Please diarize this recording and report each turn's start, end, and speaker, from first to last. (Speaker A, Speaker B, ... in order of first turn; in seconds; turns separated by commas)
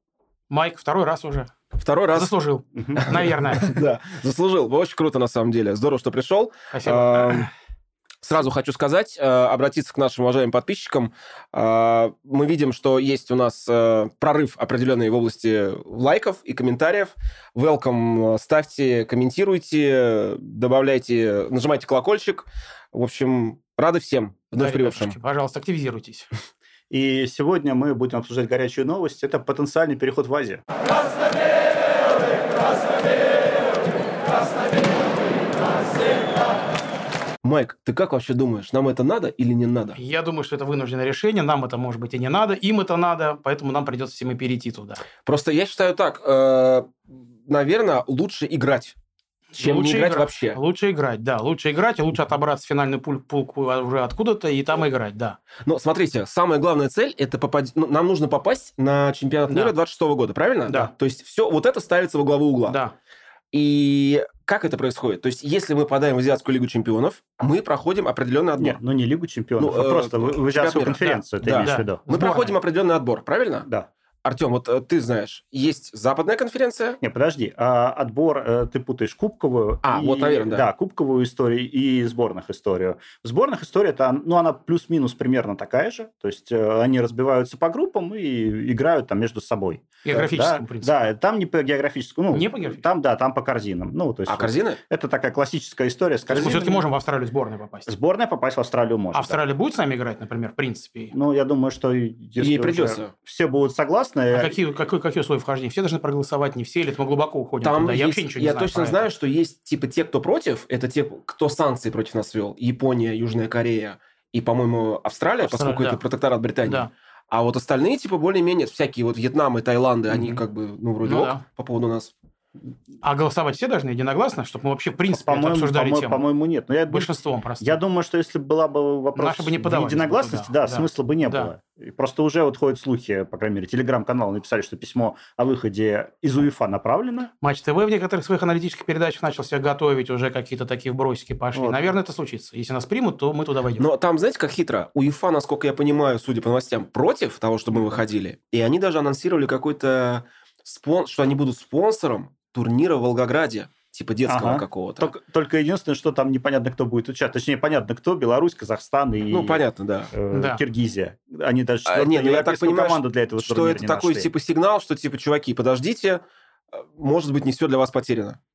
Speaker A: 0.5-1.5, Speaker B: 1.7-2.3, Speaker A: 2.1-3.7, Speaker C: 2.8-3.0, Speaker B: 3.0-7.5, Speaker A: 6.7-7.5, Speaker B: 8.2-25.2, Speaker A: 24.5-26.3, Speaker C: 26.9-30.6, Speaker B: 37.4-40.0, Speaker A: 40.0-45.0, Speaker B: 45.2-49.0, Speaker A: 49.5-55.4, Speaker B: 49.6-50.6, Speaker B: 55.6-62.8, Speaker A: 59.5-59.7, Speaker A: 62.6-62.9, Speaker B: 63.5-68.8, Speaker C: 68.6-72.0, Speaker B: 69.6-73.7, Speaker A: 71.0-72.6, Speaker B: 74.2-77.0, Speaker C: 77.0-96.8, Speaker B: 79.8-80.7, Speaker A: 90.0-91.0, Speaker A: 92.3-92.8, Speaker B: 94.3-94.8, Speaker A: 96.3-97.9, Speaker C: 97.9-99.4, Speaker A: 99.1-101.1, Speaker C: 101.1-104.6, Speaker B: 102.4-103.1, Speaker A: 104.3-109.1, Speaker B: 107.6-122.1, Speaker A: 115.4-116.0, Speaker A: 116.6-116.9, Speaker C: 120.1-120.4, Speaker A: 121.0-121.4, Speaker A: 123.0-126.2, Speaker C: 125.1-137.3, Speaker A: 126.9-127.8, Speaker A: 129.1-131.5, Speaker A: 137.4-143.8, Speaker C: 141.5-141.9, Speaker B: 143.8-155.1, Speaker C: 154.3-164.3, Speaker B: 159.3-160.1, Speaker A: 160.3-160.6, Speaker B: 161.8-166.2, Speaker B: 166.7-168.4